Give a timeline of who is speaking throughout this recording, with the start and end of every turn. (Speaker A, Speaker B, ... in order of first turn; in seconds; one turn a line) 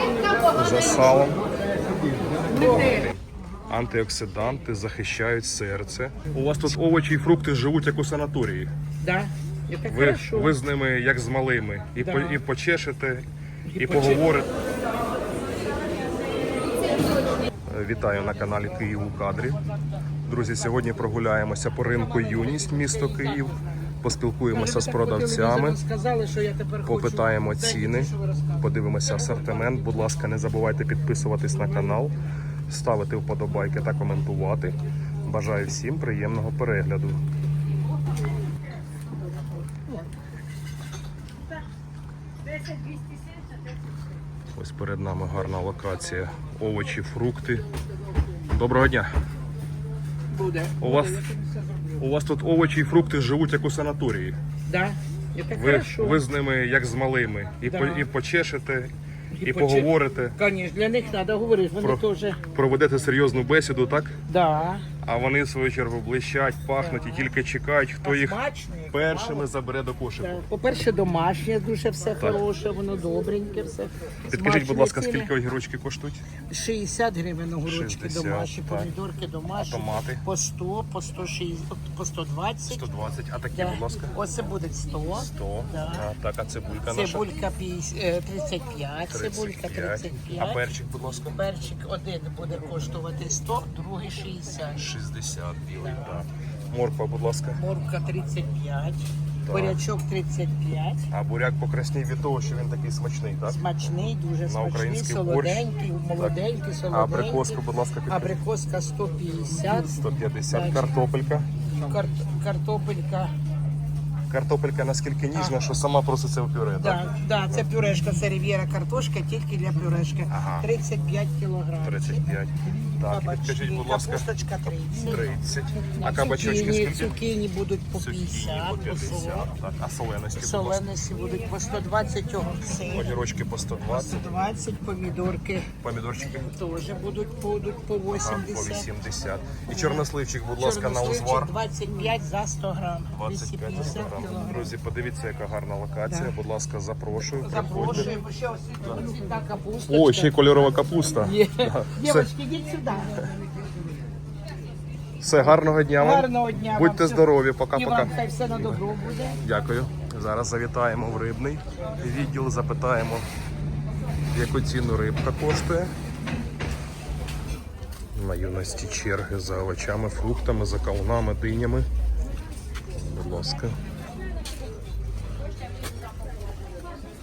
Speaker A: 0.5-1.4
Speaker A: 2.5-8.7
Speaker B: 2.5-2.8
Speaker B: 9.0-10.6
Speaker A: 9.9-14.5
Speaker B: 12.0-12.4
Speaker B: 13.7-14.2
Speaker A: 17.7-19.6
Speaker A: 20.3-25.8
Speaker B: 24.5-28.6
Speaker A: 26.8-32.1
Speaker A: 32.7-37.2
Speaker A: 44.5-47.7
Speaker A: 48.5-49.1
Speaker B: 50.3-51.5
Speaker A: 50.8-51.2
Speaker A: 52.0-54.4
Speaker B: 54.7-56.2
Speaker A: 55.5-58.9
Speaker B: 57.6-58.1
Speaker B: 59.3-62.4
Speaker A: 59.4-60.4
Speaker A: 61.8-64.2
Speaker B: 64.3-64.8
Speaker A: 65.0-68.4
Speaker B: 66.7-67.3
Speaker B: 68.0-69.5
Speaker A: 68.9-70.5
Speaker B: 70.2-75.3
Speaker A: 74.3-76.2
Speaker B: 76.5-82.9
Speaker A: 77.6-78.9
Speaker A: 79.6-80.2
Speaker A: 82.7-84.2
Speaker B: 83.5-86.1
Speaker A: 85.1-87.3
Speaker B: 86.9-90.6
Speaker A: 89.1-91.4
Speaker B: 91.3-94.9
Speaker A: 94.8-97.6
Speaker B: 97.6-101.0
Speaker A: 99.4-99.8
Speaker A: 101.1-106.4
Speaker B: 103.5-110.9
Speaker A: 106.9-108.4
Speaker A: 109.9-111.5
Speaker B: 111.8-113.3
Speaker A: 114.3-117.1
Speaker B: 116.8-122.3
Speaker A: 120.3-120.7
Speaker A: 121.8-124.3
Speaker B: 123.0-125.3
Speaker A: 125.0-127.2
Speaker B: 126.0-129.5
Speaker A: 128.0-130.8
Speaker B: 130.3-133.2
Speaker A: 132.9-134.4
Speaker B: 133.9-135.7
Speaker A: 135.8-136.5
Speaker B: 136.4-138.9
Speaker A: 138.1-141.5
Speaker B: 140.6-144.7
Speaker A: 143.1-148.1
Speaker B: 147.3-150.4
Speaker A: 149.9-152.3
Speaker B: 151.2-153.3
Speaker A: 155.2-158.8
Speaker B: 155.9-159.4
Speaker A: 159.4-163.3
Speaker A: 164.3-165.9
Speaker A: 168.1-171.9
Speaker A: 172.9-173.8